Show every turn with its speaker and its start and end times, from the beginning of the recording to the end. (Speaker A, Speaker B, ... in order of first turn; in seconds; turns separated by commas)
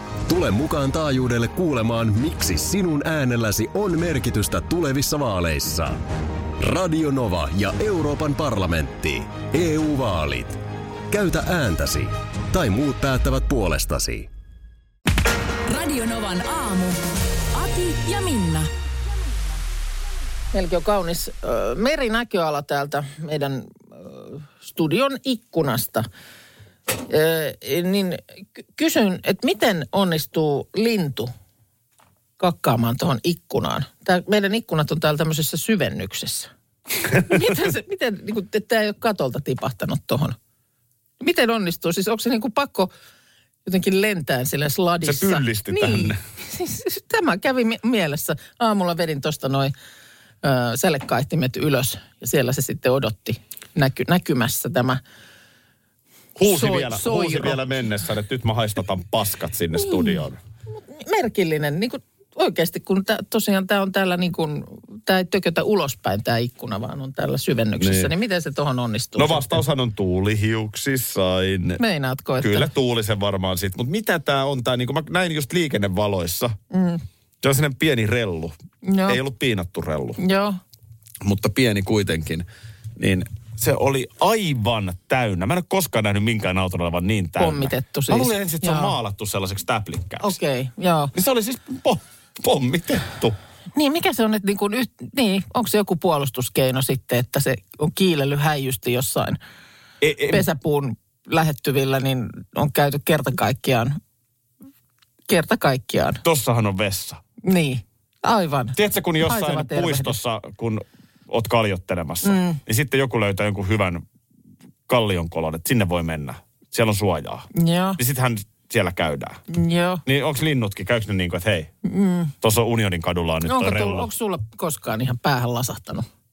Speaker A: 0.3-6.0, Speaker A: 6.6-14.3, Speaker B: 15.7-17.0, Speaker B: 17.5-18.7, Speaker C: 20.5-26.1, Speaker C: 27.0-31.3, Speaker C: 32.4-36.5, Speaker C: 37.1-40.4, Speaker C: 41.2-42.9, Speaker C: 43.6-49.7, Speaker D: 45.0-46.2, Speaker C: 50.4-55.0, Speaker D: 56.4-60.4, Speaker C: 56.5-57.6, Speaker C: 59.8-60.2, Speaker C: 60.9-69.6, Speaker D: 67.8-68.1, Speaker D: 69.2-71.8, Speaker C: 71.8-72.7, Speaker D: 72.4-76.5, Speaker C: 76.7-77.0, Speaker D: 77.4-80.2, Speaker C: 78.8-79.2, Speaker C: 80.2-80.6, Speaker D: 81.2-82.5, Speaker D: 83.0-90.3, Speaker C: 87.4-88.9, Speaker C: 90.2-91.1, Speaker D: 91.1-93.3, Speaker C: 93.7-99.4, Speaker D: 100.0-100.4, Speaker C: 100.3-104.0, Speaker C: 105.3-106.2, Speaker D: 106.2-107.2, Speaker C: 107.4-110.1, Speaker D: 108.7-114.0, Speaker C: 112.2-112.6, Speaker D: 114.9-119.4, Speaker C: 117.5-118.0, Speaker C: 119.5-120.0, Speaker D: 120.0-121.7, Speaker C: 121.8-122.3, Speaker D: 122.4-124.1, Speaker C: 123.5-126.1